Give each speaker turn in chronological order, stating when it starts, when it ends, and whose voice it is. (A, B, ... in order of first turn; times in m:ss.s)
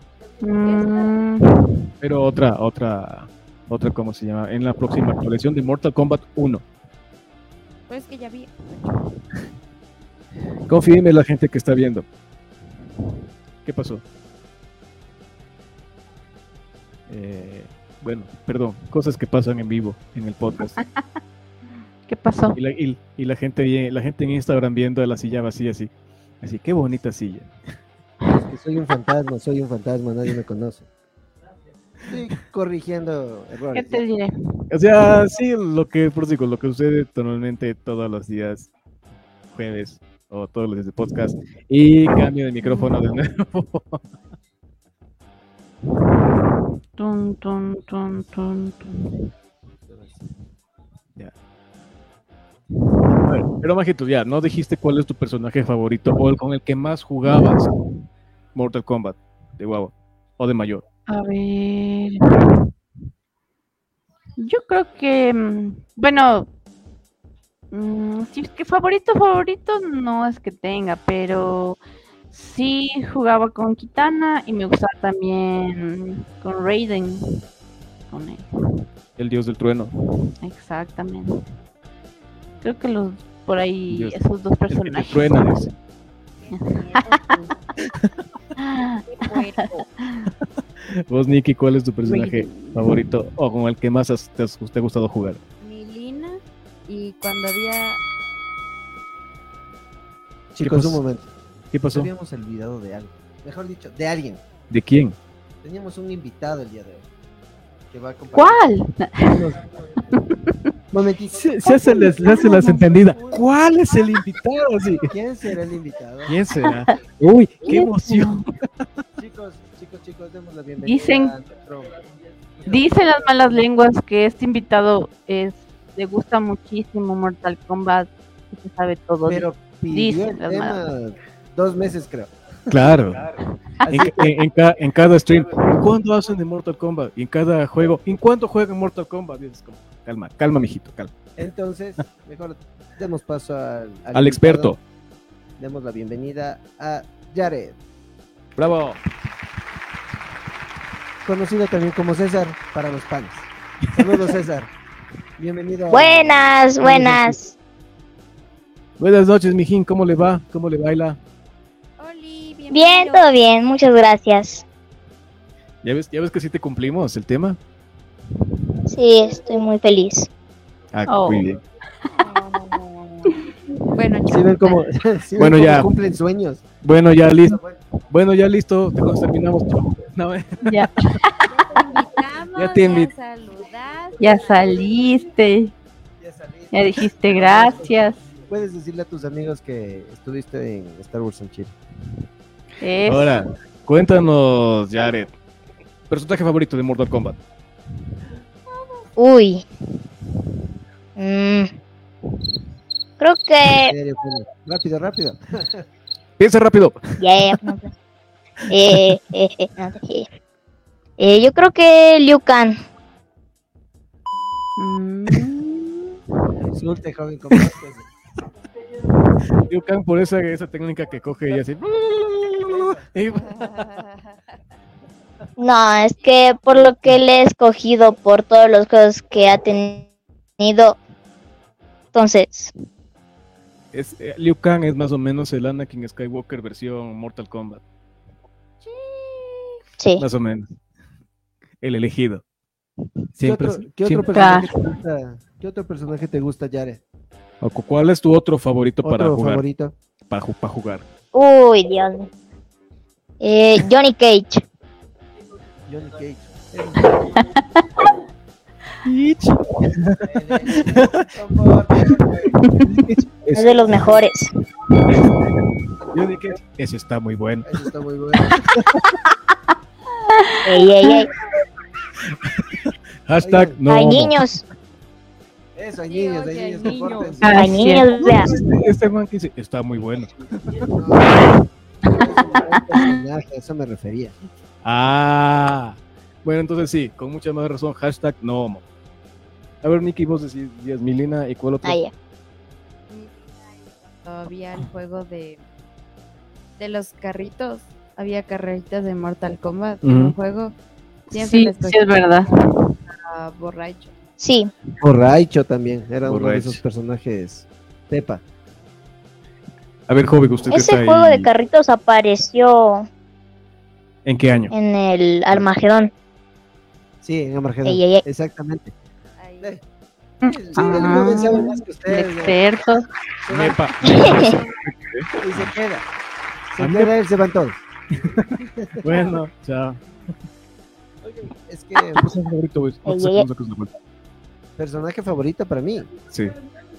0:00.4-0:01.9 A
0:00.6-0:01.2 B
0:02.0-0:06.6 C
0:07.9-0:09.1 B
0:10.7-0:12.0 C
0:13.6-0:14.0 C
0:17.1-0:20.8 C
0:22.1-0:22.6 A
0:22.6-0:25.9 C
0:26.4-0:27.5 C
0:28.3-0:30.9 D
0:32.1-0:34.0 D
0:33.7-0:34.6 A
0:34.7-0:38.7 C
0:39.5-0:44.0 C
0:42.6-0:43.0 A
0:47.0-0:49.2 A
0:49.9-0:50.3 D
0:53.1-0:57.7 C
0:58.6-1:00.8 C
1:01.1-1:02.6 A
1:04.4-1:06.5 A
1:07.7-1:11.8 A
1:12.3-1:17.4 A
1:18.1-1:18.8 A
1:19.2-1:19.9 C
1:20.4-1:21.4 A
1:22.6-1:25.7 A
1:23.9-1:25.7 C
1:26.4-1:27.7 B
1:26.5-1:27.2 A
1:28.6-1:30.3 A
1:29.1-1:29.9 B
1:30.9-1:35.4 C
1:35.6-1:38.0 B
1:40.6-1:41.0 C
1:40.6-1:41.3 D
1:41.7-1:42.1 C
1:41.9-1:44.4 D
1:44.7-1:45.2 C
1:45.6-1:47.1 D
1:47.9-1:48.7 D
1:48.3-1:49.5 A
1:49.2-1:50.1 D
1:50.1-1:50.6 A
1:50.9-1:53.4 D
1:51.4-1:55.1 C
1:51.7-1:52.8 A
1:55.1-1:57.0 D
1:56.2-1:58.6 C
1:57.6-1:58.4 A
1:59.2-2:02.0 D
2:00.8-2:01.4 A
2:02.6-2:10.8 A
2:09.2-2:12.9 D
2:12.7-2:13.3 C
2:13.8-2:14.4 D
2:13.9-2:21.1 C
2:21.4-2:24.8 D
2:24.1-2:24.8 C
2:25.6-2:27.8 D
2:28.6-2:29.0 C
2:31.2-2:34.7 D
2:35.4-2:37.3 D
2:35.9-2:37.6 E
2:39.0-2:41.2 C
2:42.0-2:43.3 B
2:42.7-2:44.6 E
2:45.8-2:47.6 C
2:48.9-2:50.3 E
2:50.9-2:51.6 C
2:51.1-2:51.5 A
2:52.2-2:53.3 B
2:53.9-2:54.8 B
2:54.3-2:57.9 D
2:55.4-2:55.9 C
2:56.8-3:01.2 C
3:00.6-3:01.4 A
3:01.5-3:04.6 B
3:02.6-3:03.1 C
3:04.2-3:05.7 A
3:06.2-3:11.7 D
3:06.7-3:08.2 A
3:12.8-3:13.4 A
3:13.0-3:15.3 C
3:16.1-3:17.4 C
3:19.2-3:19.6 E
3:21.2-3:21.7 E
3:23.2-3:24.0 E
3:23.8-3:25.9 D
3:26.4-3:27.2 C
3:27.2-3:27.9 E
3:28.7-3:30.3 E
3:31.2-3:32.8 E
3:34.8-3:36.2 A
3:36.7-3:38.1 D
3:39.5-3:43.8 C
3:42.7-3:43.0 D
3:43.6-3:44.1 B
3:45.6-3:50.1 E
3:50.6-3:51.0 E
3:52.1-3:52.7 E
3:53.9-3:57.8 C
3:59.0-3:59.4 A
4:00.0-4:00.2 E
4:00.2-4:00.7 C
4:01.8-4:02.4 C
4:03.4-4:04.6 C
4:03.4-4:07.0 D
4:04.3-4:04.7 A
4:07.6-4:09.7 C
4:09.0-4:10.0 D
4:10.3-4:11.1 C
4:11.3-4:12.3 E
4:13.4-4:14.6 E
4:15.9-4:17.6 D
4:19.0-4:21.3 C
4:20.3-4:22.7 D
4:22.6-4:22.8 A
4:22.8-4:24.1 C
4:23.5-4:24.5 E
4:25.0-4:25.6 C
4:26.1-4:27.7 C
4:27.6-4:28.6 D
4:28.5-4:29.1 C
4:30.7-4:31.3 E
4:32.2-4:34.4 C
4:33.4-4:33.8 D
4:33.9-4:34.6 E
4:35.8-4:37.7 D
4:36.1-4:37.4 B
4:37.4-4:38.3 A
4:37.5-4:38.5 E
4:38.4-4:40.3 C
4:40.7-4:44.4 D
4:42.6-4:43.0 A
4:44.8-4:48.8 C
4:49.8-4:52.0 C
4:51.8-4:52.1 E
4:53.1-4:55.6 B
4:56.8-5:00.8 B
5:00.0-5:00.4 C
5:01.3-5:02.2 B
5:01.3-5:02.9 A
5:03.1-5:04.1 B
5:04.4-5:04.7 E
5:05.0-5:08.4 D
5:06.2-5:06.8 C
5:10.1-5:11.5 C
5:10.7-5:13.1 E
5:14.2-5:14.7 C
5:14.7-5:16.1 E
5:17.2-5:18.9 D
5:17.8-5:18.2 E
5:19.4-5:19.7 B
5:20.4-5:22.6 D
5:20.4-5:23.1 A
5:23.5-5:24.6 D
5:23.5-5:25.7 C
5:24.1-5:24.6 E
5:25.4-5:26.1 D
5:26.7-5:27.8 D
5:26.8-5:27.1 C
5:28.2-5:28.5 C
5:28.8-5:29.3 D
5:29.0-5:30.0 C
5:31.2-5:32.3 D
5:32.2-5:34.0 C
5:33.1-5:33.5 E
5:34.8-5:36.2 D
5:36.3-5:36.5 C